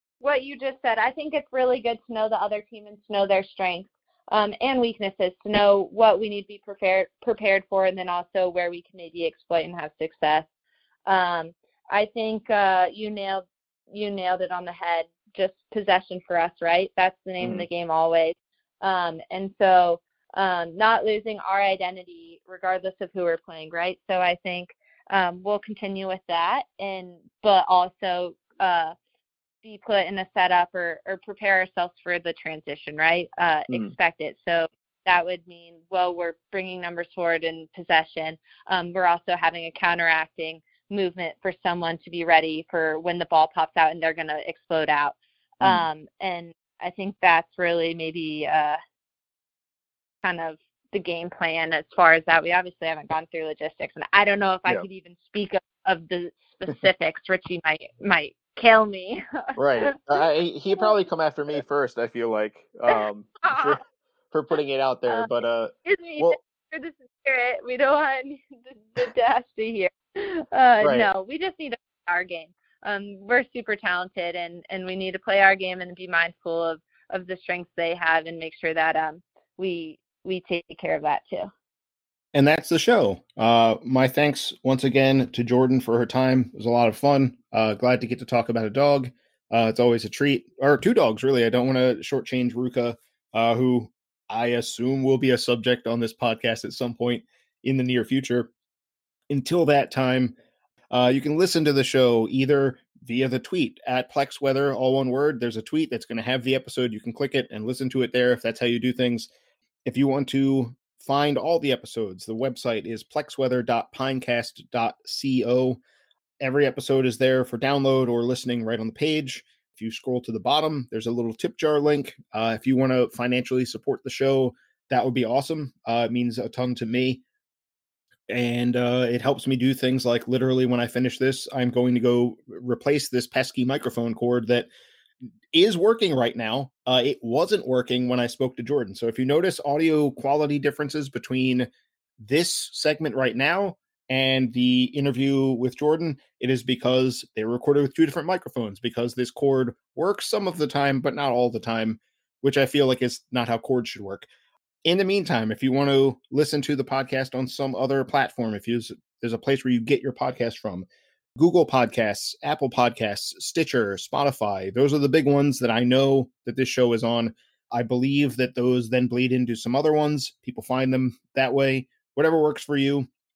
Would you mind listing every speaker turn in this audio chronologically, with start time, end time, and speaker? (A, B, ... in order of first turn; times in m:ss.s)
0:00.2-0:10.5 A
0:11.1-0:29.0 A
0:17.4-0:17.7 B
0:29.6-0:48.8 A
0:45.6-0:45.9 B
0:50.2-1:00.2 A
0:59.6-1:03.8 B
1:02.9-1:03.8 A
1:04.3-1:06.4 B
1:05.8-1:21.5 A
1:10.8-1:11.1 B
1:22.3-1:38.5 B
1:39.3-1:40.4 B
1:40.9-1:49.3 B
1:49.8-1:55.8 B
1:56.4-2:07.2 B
2:08.3-2:14.7 B
2:15.5-2:21.7 B
2:22.2-2:34.3 B
2:34.8-2:53.1 B